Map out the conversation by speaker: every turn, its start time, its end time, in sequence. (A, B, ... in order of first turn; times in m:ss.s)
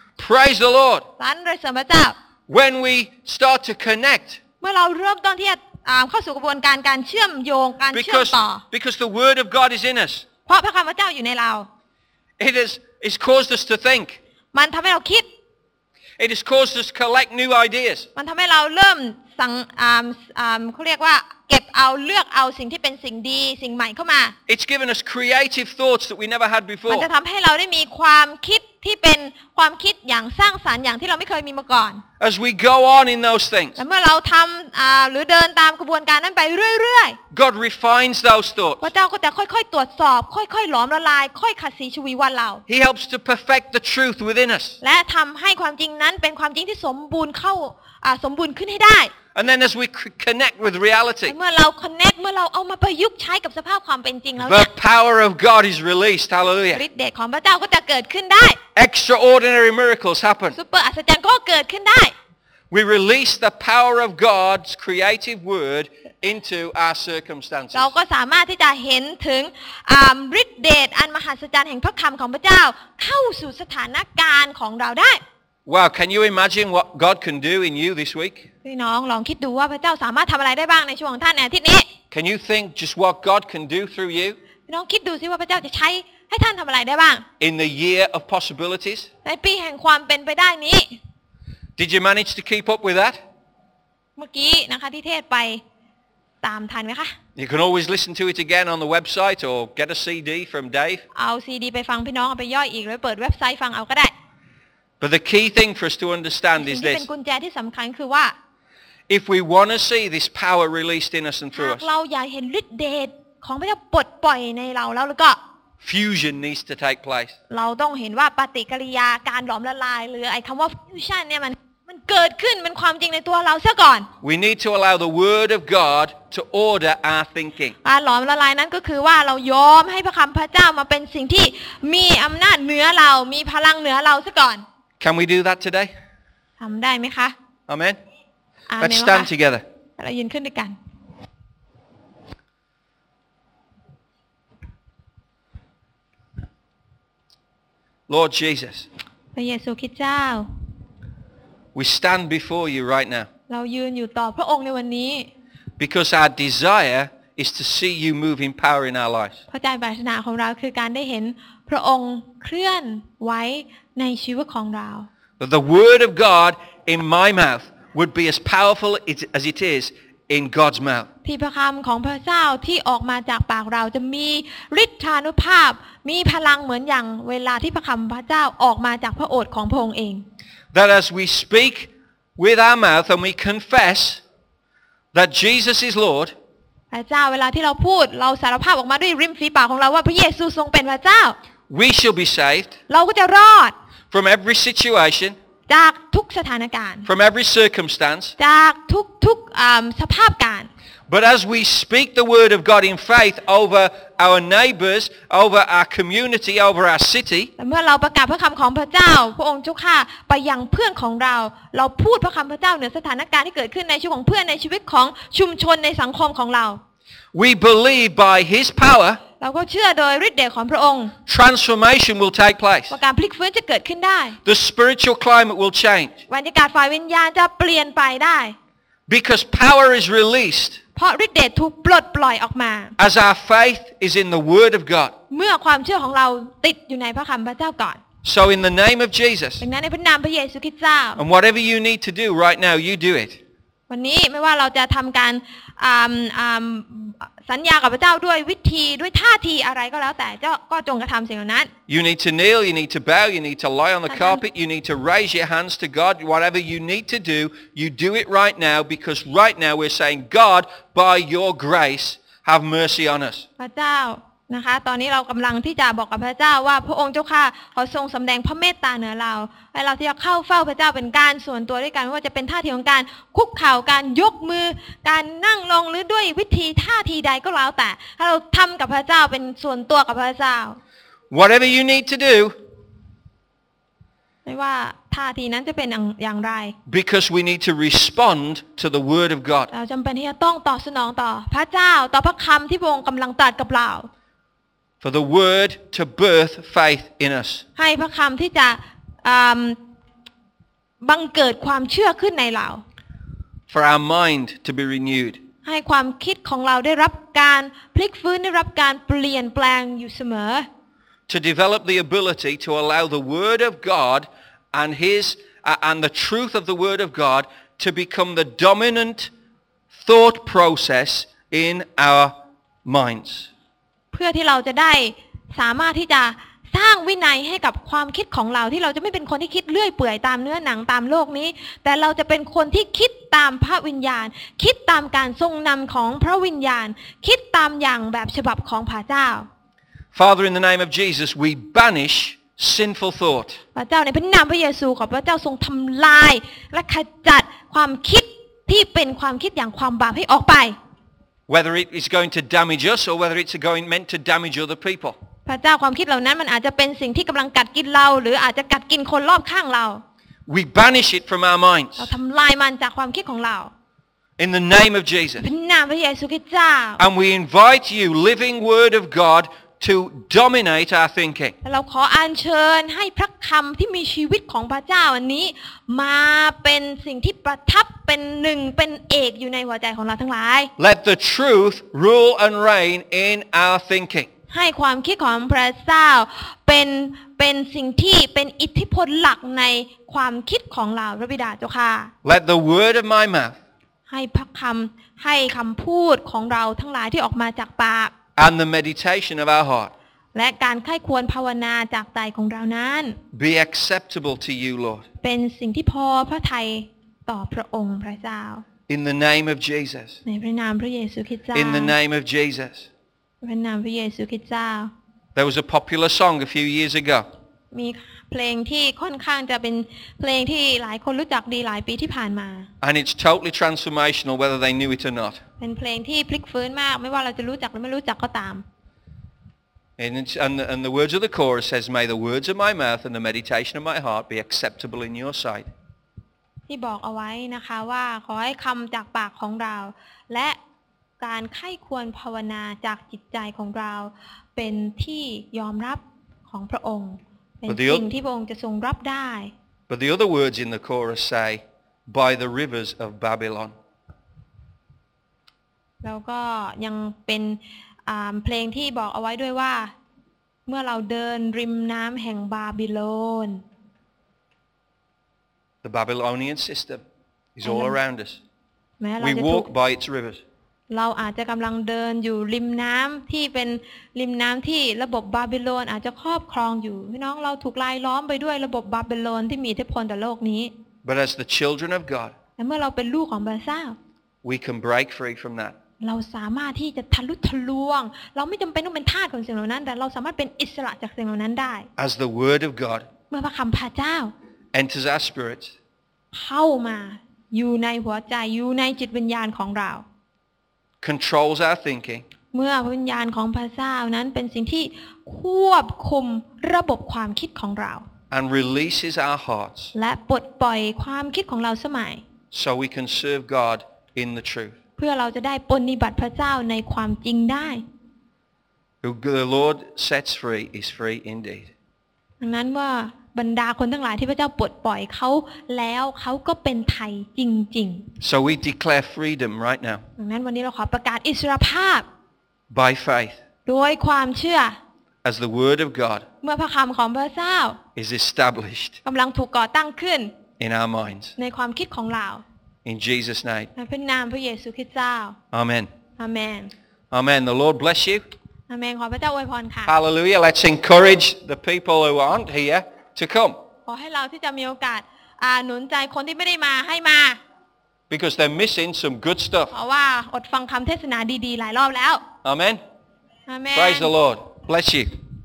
0:00.2-0:01.0 A
0:01.2-0:02.2 B
0:02.5-0:04.4 A
0:04.6-0:08.6 B
0:07.9-0:10.2 A
0:10.4-0:11.7 B
0:12.4-0:14.2 A
0:14.5-0:15.3 B
0:16.2-0:18.1 A
0:18.2-0:24.3 B
0:24.5-0:27.1 A
0:26.9-0:32.0 B
0:32.2-0:33.8 A
0:33.8-0:37.2 B
0:37.3-0:38.8 A
0:38.8-0:42.6 B
0:42.7-0:44.8 A
0:44.8-0:49.1 B
0:49.3-0:51.3 A
0:51.2-0:54.7 B
0:54.4-0:56.8 A
0:56.7-0:58.6 B
0:58.8-1:00.6 A
1:00.5-1:02.1 B
1:02.7-1:07.9 A
1:07.7-1:15.2 B
1:15.6-1:18.4 A
1:18.6-1:21.9 B
1:22.1-1:24.4 A
1:24.7-1:27.2 B
1:27.4-1:29.1 A
1:29.2-1:31.0 B
1:31.8-1:33.2 A
1:34.2-1:35.6 B
1:36.4-1:37.1 B
1:37.4-1:41.0 A
1:41.1-1:44.1 B
1:45.0-1:47.0 A
1:46.6-1:48.3 B
1:49.1-1:51.8 A
1:51.5-1:55.4 B
1:55.8-1:57.3 A
1:57.5-2:04.1 B
2:04.2-2:07.7 A
2:07.8-2:14.6 B
2:15.0-2:15.9 A
2:16.6-2:17.3 B
2:17.7-2:18.0 A
2:18.7-2:19.3 B
2:18.8-2:19.6 A
2:20.0-2:20.8 B
2:28.1-2:28.9 A
2:29.3-2:30.5 B
2:31.7-2:33.3 A
2:33.5-2:35.3 B
2:35.8-2:39.4 A
2:39.5-2:45.1 B
2:45.4-2:51.1 A
2:51.2-3:00.2 B
3:00.7-3:04.2 A
3:05.1-3:06.3 A
3:06.9-3:11.4 B
3:11.7-3:12.7 A
3:12.9-3:13.7 B
3:14.1-3:15.4 A
3:15.7-3:17.1 B
3:17.1-3:18.3 A
3:18.4-3:20.7 B
3:21.1-3:27.5 A
3:27.6-3:36.8 B
3:37.3-3:39.2 A
3:39.4-3:41.1 B
3:41.3-3:42.9 A
3:42.9-3:44.4 B
3:44.4-3:46.1 A
3:46.3-3:48.5 B
3:49.1-3:50.8 A
3:51.0-3:52.9 B
3:53.0-3:55.1 A
3:55.3-3:58.0 B
3:58.2-3:59.6 A
3:59.6-4:01.2 B
4:01.2-4:03.4 A
4:03.9-4:11.7 B
4:11.9-4:23.4 A
4:14.1-4:14.4 B
4:23.6-4:40.8 B
4:41.3-4:42.5 A
4:44.4-4:46.7 B
4:46.9-4:49.7 A
4:49.7-4:54.1 B
4:55.0-4:57.6 A
4:57.8-4:59.8 B
5:01.0-5:02.8 B
5:03.7-5:05.4 A
5:05.6-5:10.7 B
5:11.3-5:19.3 A
5:19.9-5:22.3 A
5:22.8-5:23.5 A
5:24.1-5:39.5 B
5:40.1-5:43.6 A
5:43.7-5:50.7 B
5:51.5-5:55.2 A
5:55.4-6:00.0 B
6:00.5-6:02.1 A
6:02.0-6:03.7 B
6:04.4-6:05.4 A
6:05.4-6:07.0 B
6:07.0-6:11.5 A
6:11.6-6:20.7 B
6:20.8-6:24.3 A
6:24.5-6:32.1 B
6:32.2-6:33.5 A
6:34.1-6:38.1 B
6:38.4-6:39.9 A
6:40.3-6:43.2 B
6:43.3-6:45.0 A
6:45.2-6:48.6 B
6:48.9-6:50.2 A
6:50.2-6:51.9 B
6:51.5-6:52.9 A
6:53.4-6:54.9 B
6:55.3-6:57.3 A
6:57.7-7:02.7 B
7:02.8-7:05.4 A
7:05.6-7:08.6 B
7:10.0-7:15.7 A
7:16.7-7:20.6 B
7:21.2-7:29.5 B
7:27.7-7:28.1 A
7:29.9-7:33.7 A
7:36.0-7:39.9 B
7:40.7-7:43.6 B
7:45.8-7:47.0 A
7:47.5-7:48.4 A
7:47.6-7:47.9 B
7:49.0-7:49.7 B
7:49.2-7:50.4 A
7:50.9-8:00.7 B
8:01.0-8:02.3 A
8:02.6-8:04.0 B
8:04.4-8:05.7 A
8:06.0-8:11.9 B
8:12.0-8:13.0 A
8:13.3-8:14.3 B
8:14.7-8:15.7 A
8:16.3-8:20.0 B
8:21.0-8:22.2 A
8:22.5-8:28.0 B
8:28.3-8:29.9 A
8:29.9-8:32.2 B
8:32.5-8:34.7 A
8:35.0-8:37.8 B
8:39.0-8:41.7 A
8:42.4-8:48.0 B
8:48.2-8:50.0 A
8:50.2-8:52.1 B
8:52.7-8:53.4 A
8:53.6-8:54.8 B
8:55.2-8:56.2 A
8:56.4-8:57.8 B
8:58.0-8:59.0 A
8:59.0-9:00.3 B
9:00.6-9:01.3 A
9:01.4-9:02.4 B
9:02.8-9:03.7 A
9:03.8-9:05.4 B
9:05.5-9:05.9 A
9:06.2-9:06.7 B
9:07.1-9:08.2 A
9:08.7-9:09.9 B
9:09.9-9:13.6 A
9:13.9-9:17.4 B
9:18.1-9:19.7 A
9:19.7-9:22.2 B
9:22.4-9:22.8 A
9:23.5-9:24.1 B
9:23.7-9:25.1 A